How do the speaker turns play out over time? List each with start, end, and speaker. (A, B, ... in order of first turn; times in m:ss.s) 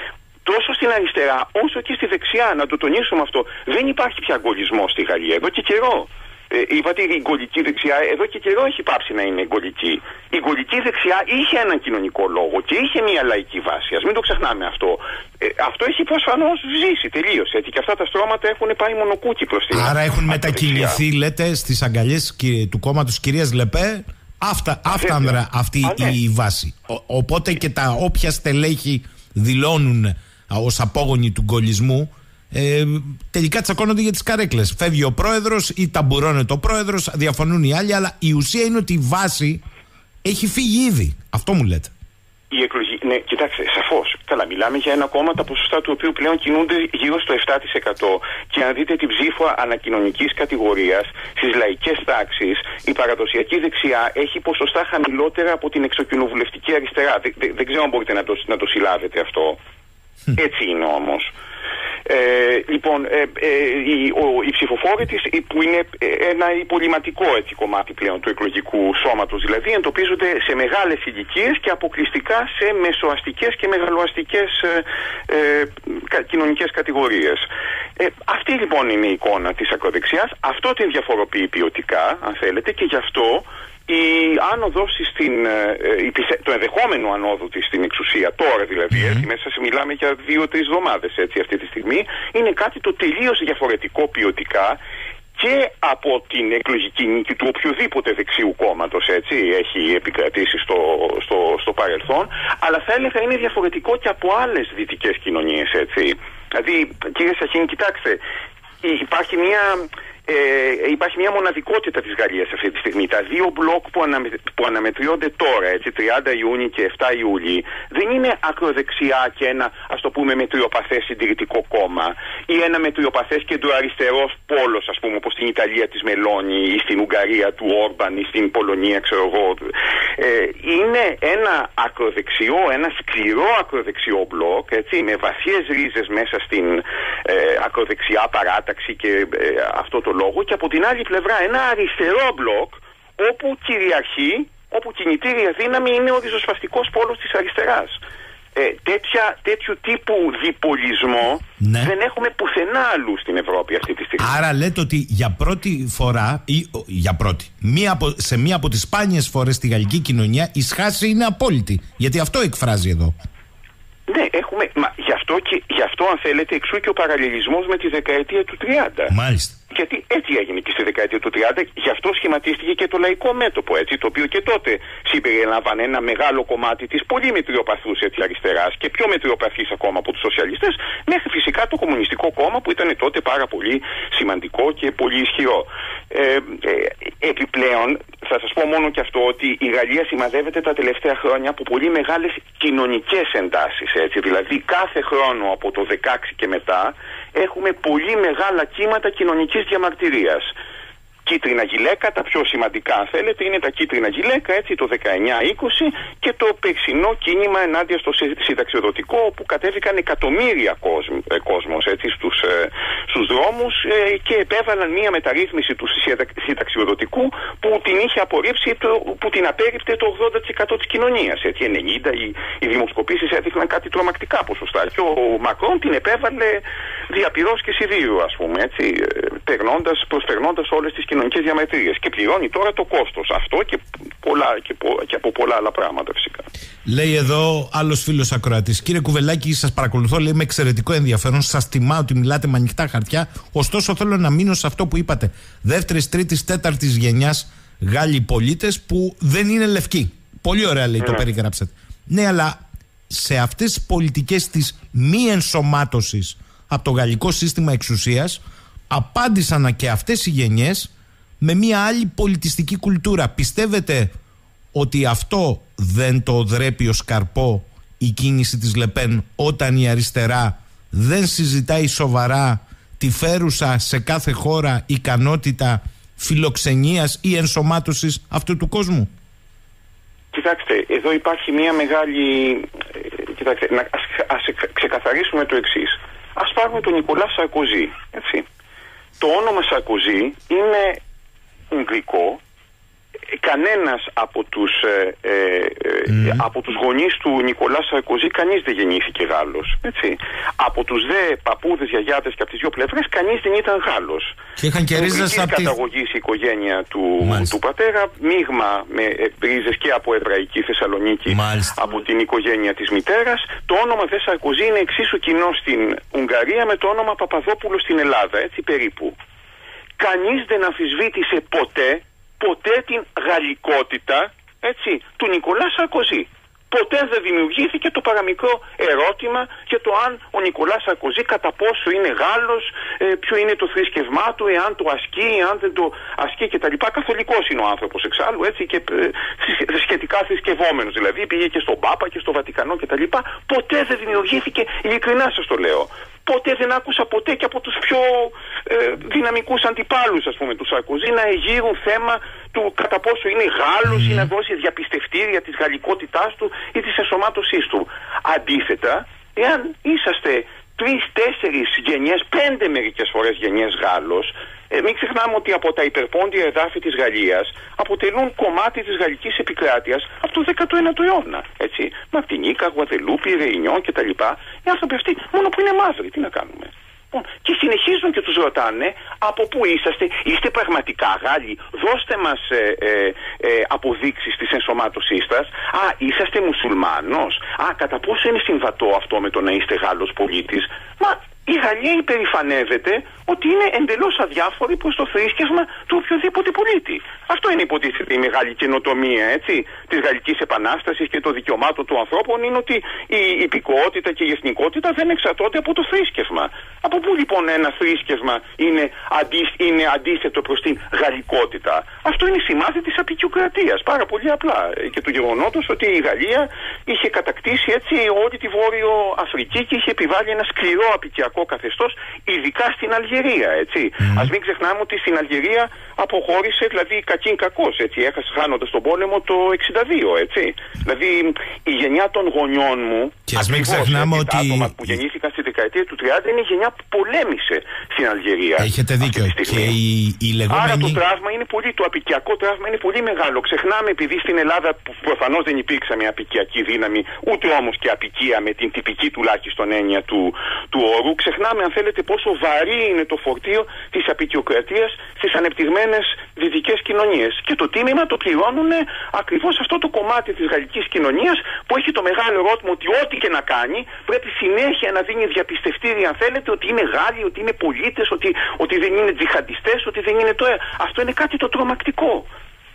0:00.4-0:21.0 A
0:19.7-0:39.6 B
0:24.9-0:26.2 A
0:40.2-0:41.9 B
0:42.5-0:59.6 A
1:00.3-1:01.3 A
1:02.0-1:17.4 A
1:18.0-1:34.8 A
1:35.4-1:48.2 A
1:48.8-2:28.0 A
2:28.5-2:34.3 A
2:31.6-2:31.9 B
2:34.2-2:43.1 B
2:44.1-2:49.1 A
2:49.1-2:49.6 B
2:49.7-3:20.5 A
3:21.2-3:56.5 A
3:56.8-4:24.1 B
4:24.7-4:39.1 B
4:40.3-4:48.4 A
4:49.2-4:51.0 A
4:51.7-4:52.4 A
4:53.3-5:04.4 A
4:56.1-4:56.4 B
5:04.6-5:05.8 B
5:04.9-5:19.2 A
5:07.2-5:07.5 B
5:11.3-5:11.8 B
5:20.0-7:19.8 A
5:53.9-5:54.3 B
7:04.0-7:04.3 B
7:13.3-7:15.0 B
7:18.6-7:21.0 B
7:20.5-7:52.3 A